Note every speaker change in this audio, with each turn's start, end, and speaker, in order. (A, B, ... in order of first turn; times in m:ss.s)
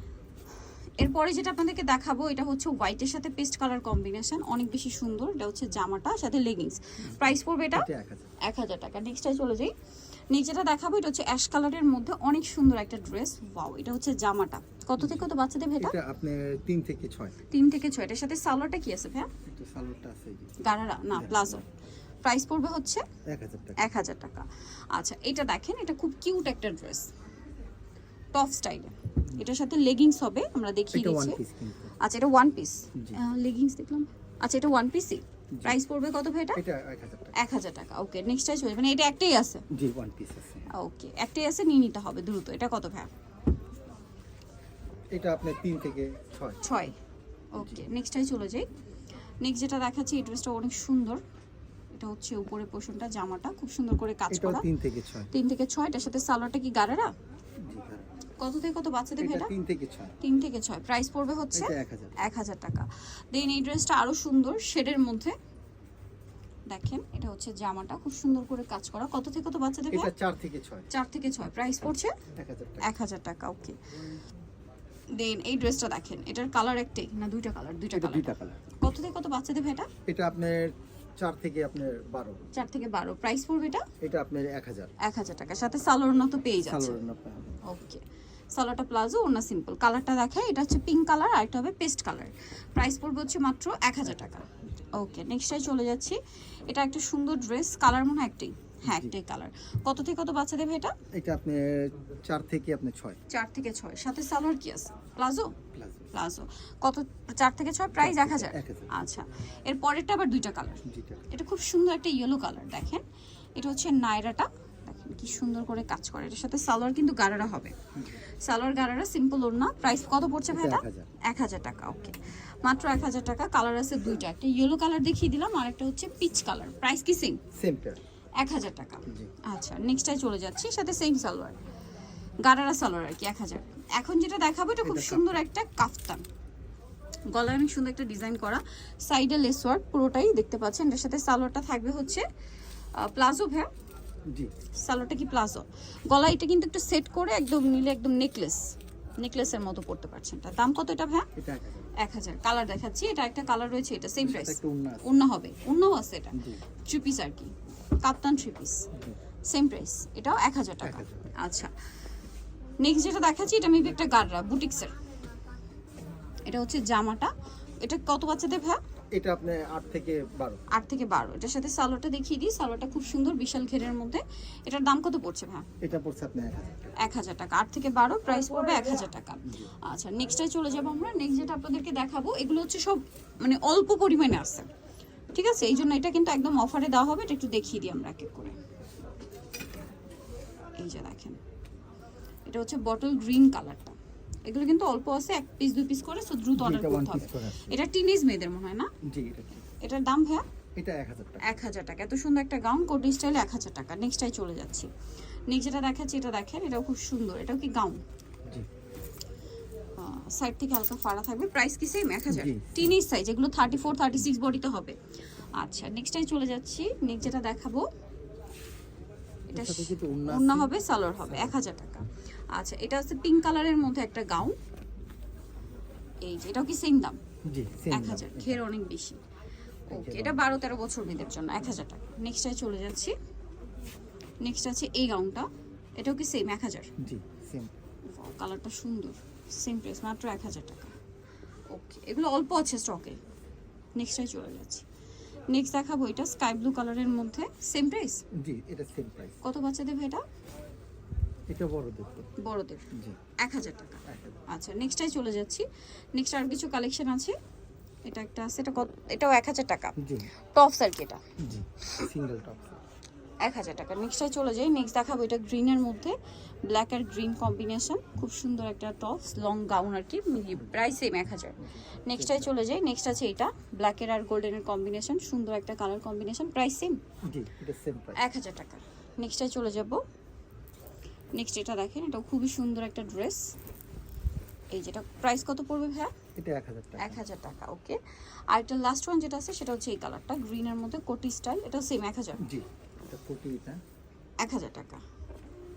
0:01.0-0:07.9 A
0:07.0-0:08.3 B
0:08.4-0:09.7 A
0:10.3-0:16.0 A
0:15.0-0:15.3 B
0:15.8-0:17.4 B
0:17.5-0:19.3 A
0:19.5-0:20.6 B
0:20.6-0:21.7 A
0:21.1-0:21.6 B
0:22.2-0:23.0 A
0:23.3-0:23.8 B
0:23.8-0:27.1 A
0:28.3-0:31.4 A
0:30.9-0:32.0 B
0:32.0-0:36.6 A
0:33.0-0:33.2 B
0:36.6-0:37.4 B
0:37.4-0:39.6 A
0:39.7-0:40.7 B
0:40.7-0:43.1 A
0:45.1-0:46.6 B
0:46.6-0:47.0 A
0:47.6-0:48.7 A
0:47.6-0:47.8 B
0:49.4-0:51.2 A
0:51.9-0:54.7 A
0:54.3-0:55.3 B
0:55.3-0:57.1 A
0:57.6-0:58.2 B
0:58.4-0:59.5 A
0:59.2-1:00.2 B
1:00.2-1:05.4 A
1:01.5-1:02.2 B
1:06.7-1:10.1 A
1:09.9-1:10.9 B
1:10.9-1:12.2 A
1:12.3-1:12.9 B
1:12.8-1:13.8 A
1:15.1-1:19.9 A
1:17.9-1:18.6 B
1:20.1-1:22.6 B
1:22.5-1:23.9 A
1:24.0-1:24.9 B
1:25.0-1:27.0 A
1:26.7-1:27.6 B
1:27.6-1:28.0 A
1:28.5-1:41.0 A
1:38.9-1:39.1 B
1:41.1-1:43.2 B
1:43.3-1:45.6 A
1:45.7-1:46.1 B
1:46.1-1:53.0 A
1:48.0-1:49.0 B
1:50.8-1:51.3 B
1:53.6-1:57.7 A
1:58.0-1:58.2 B
1:58.4-2:07.4 A
2:00.5-2:01.1 B
2:07.5-2:08.0 B
2:08.4-2:11.6 A
2:09.1-2:09.3 B
2:12.4-2:16.2 A
2:14.8-2:15.4 B
2:17.3-2:22.2 A
2:23.0-2:23.7 A
2:24.8-2:31.3 A
2:31.4-2:32.0 B
2:32.0-2:38.9 A
2:34.2-2:35.2 B
2:36.3-2:36.6 B
2:39.5-2:41.7 A
2:40.8-2:41.4 B
2:42.8-2:44.9 A
2:46.5-2:48.8 A
2:49.1-2:50.6 B
2:50.7-2:55.7 A
2:55.8-2:57.0 B
2:57.0-3:04.7 A
2:59.4-2:59.7 B
3:05.3-3:08.6 A
3:10.8-3:11.4 A
3:12.5-3:18.9 A
3:16.6-3:17.8 B
3:19.0-3:19.7 B
3:19.8-3:20.4 A
3:20.8-3:21.6 B
3:21.4-3:24.9 A
3:25.5-3:28.0 A
3:30.0-3:35.0 A
3:32.3-3:32.9 B
3:35.6-3:37.9 A
3:39.5-3:44.6 A
3:39.5-3:41.6 B
3:46.2-3:47.2 A
3:47.5-3:48.6 B
3:47.9-3:49.2 A
3:49.9-3:50.5 B
3:49.9-3:53.2 A
3:54.4-3:56.9 A
3:57.0-3:57.7 B
3:58.1-4:01.0 A
4:01.7-4:03.2 A
4:04.0-4:04.8 A
4:05.5-4:08.2 A
4:08.3-4:09.4 B
4:09.4-4:10.2 A
4:11.5-4:12.3 B
4:12.4-4:12.9 A
4:12.9-4:13.2 B
4:13.4-4:17.4 A
4:14.0-4:14.4 B
4:18.0-4:20.0 A
4:20.0-4:20.3 B
4:20.5-4:21.2 A
4:21.4-4:22.8 B
4:23.4-4:37.0 A
4:31.6-4:32.6 B
4:37.2-4:38.2 B
4:38.2-4:40.0 A
4:41.3-4:43.5 A
4:44.7-4:46.1 A
4:46.4-4:47.2 B
4:47.0-4:48.0 A
4:48.5-4:52.4 A
4:52.4-4:53.8 B
4:54.4-4:55.0 A